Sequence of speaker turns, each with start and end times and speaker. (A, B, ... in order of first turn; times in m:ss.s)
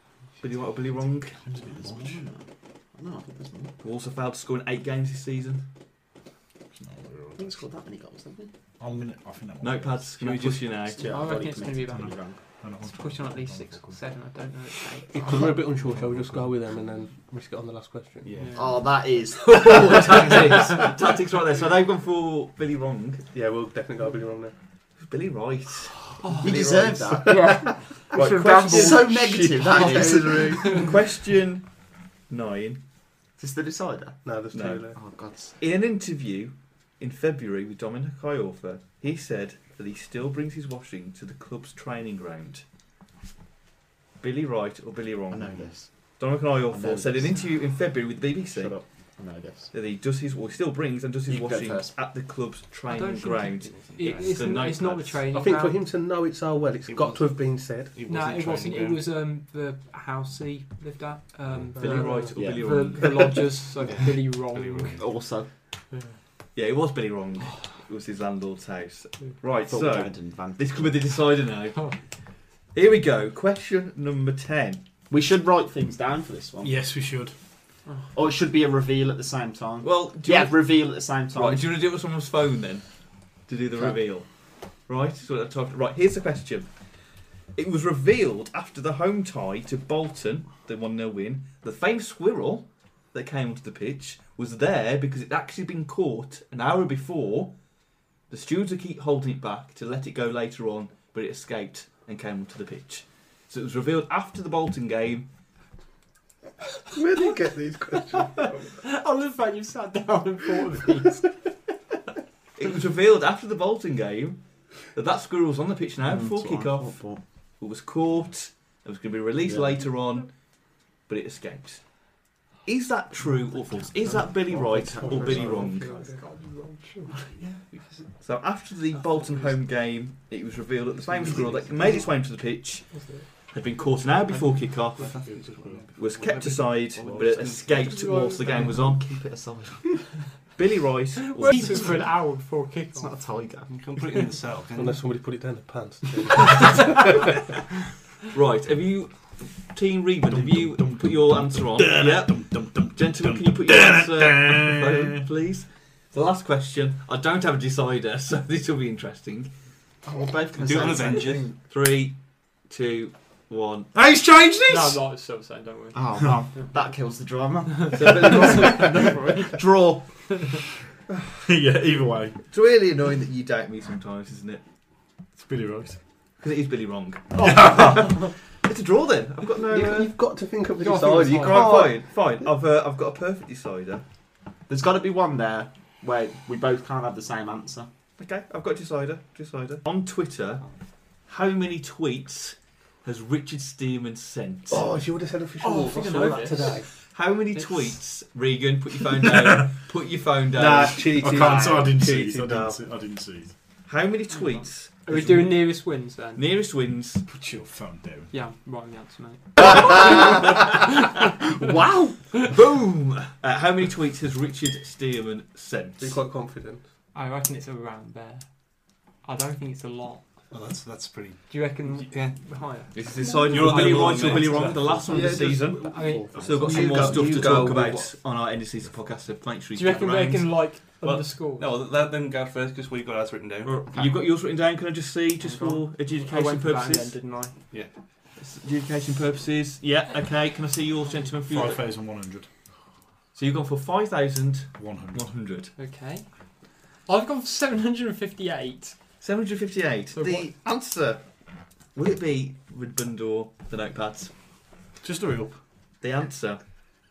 0:00.4-0:01.4 A
0:01.4-0:02.2 B
0:01.6-0:03.7 C
0:03.8-0:05.6 A
0:06.7-0:07.6 B
0:07.4-0:08.5 C
0:08.8-0:10.2 B
0:09.6-0:11.0 A
0:10.2-0:10.9 D
0:11.0-0:12.4 C
0:11.0-0:15.5 E
0:11.8-0:13.9 B
0:15.1-0:18.3 F
0:18.2-0:18.8 D
0:18.6-0:20.9 C
0:19.5-0:23.2 A
0:23.3-0:24.5 F
0:25.0-0:27.4 A
0:26.2-0:26.5 E
0:26.4-0:30.9 C
0:26.6-0:30.8 F
0:28.1-0:29.1 A
0:30.5-0:30.9 E
0:30.6-0:31.7 A
0:32.3-0:32.8 A
0:33.4-0:34.2 C
0:34.2-0:35.0 F
0:34.5-0:34.8 A
0:34.9-0:35.6 C
0:35.6-0:42.6 A
0:44.2-0:48.8 A
0:45.3-0:45.9 C
0:46.7-0:47.4 C
0:48.5-0:49.7 C
0:49.7-0:55.2 A
0:51.3-0:52.0 C
0:52.9-0:55.8 E
0:53.6-0:54.6 D
0:55.3-0:57.9 F
0:56.8-0:59.0 D
0:58.1-1:05.0 E
1:01.8-1:03.4 A
1:01.8-1:02.3 F
1:02.3-1:03.4 C
1:03.8-1:05.1 D
1:05.0-1:05.5 C
1:06.5-1:11.9 A
1:09.7-1:11.2 C
1:12.7-1:14.8 A
1:15.1-1:16.8 C
1:16.6-1:17.3 B
1:18.1-1:21.7 C
1:19.8-1:20.6 A
1:21.3-1:22.8 A
1:23.4-1:24.3 A
1:24.8-1:26.7 A
1:27.5-1:37.5 A
1:38.3-1:45.3 A
1:46.9-1:48.5 F
1:48.6-1:51.3 E
1:52.6-2:00.3 A
1:56.0-1:57.2 C
1:59.4-1:59.8 C
2:01.1-2:01.8 A
2:02.6-2:05.9 A
2:03.7-2:05.8 C
2:05.0-2:06.2 F
2:05.8-2:06.9 E
2:07.7-2:08.0 D
2:08.2-2:15.1 A
2:11.3-2:11.6 D
2:15.0-2:18.1 D
2:15.1-2:15.9 B
2:16.0-2:19.3 A
2:17.0-2:20.1 C
2:20.5-2:21.9 A
2:21.3-2:23.1 E
2:22.9-2:23.7 C
2:23.7-2:25.0 D
2:24.7-2:27.2 F
2:28.3-2:39.5 A
2:30.3-2:35.2 B
2:40.0-2:41.6 C
2:40.5-2:41.5 D
2:41.6-2:43.9 A
2:43.9-2:45.0 B
2:44.7-2:46.0 E
2:45.9-2:50.0 C
2:47.9-2:49.6 E
2:48.0-2:48.7 A
2:51.4-2:52.4 B
2:52.5-2:54.6 A
2:55.4-2:56.0 B
2:56.4-3:00.1 A
2:57.4-2:58.2 B
2:57.4-2:58.3 E
2:59.6-3:02.1 F
3:00.8-3:01.7 E
3:01.4-3:04.0 A
3:04.7-3:07.9 C
3:08.2-3:10.6 A
3:11.3-3:14.8 A
3:14.7-3:16.9 F
3:15.6-3:16.8 E
3:17.1-3:21.5 A
3:17.5-3:17.9 E
3:19.3-3:19.6 B
3:20.5-3:22.8 F
3:21.0-3:23.5 B
3:23.9-3:25.6 A
3:24.4-3:26.4 E
3:26.4-3:27.2 A
3:27.3-3:28.3 B
3:28.3-3:30.2 E
3:29.6-3:30.6 C
3:31.5-3:32.2 C
3:32.4-3:36.2 A
3:36.0-3:36.8 F
3:37.1-3:40.2 E
3:40.5-3:42.6 D
3:41.5-3:46.8 E
3:42.9-3:50.6 A
3:43.2-3:45.0 D
3:45.0-3:47.9 F
3:46.4-3:48.1 C
3:49.7-3:51.7 E
3:51.0-3:53.8 D
3:53.6-3:57.2 A
3:53.9-3:54.2 C
3:55.4-3:57.5 E
3:57.7-3:58.0 D
3:58.4-4:01.8 A
4:01.5-4:02.5 B
4:03.3-4:05.7 A
4:04.8-4:05.2 B
4:05.8-4:09.0 E
4:09.2-4:11.2 A
4:10.1-4:10.5 E
4:11.9-4:14.3 A
4:15.0-4:15.6 B
4:16.0-4:16.6 A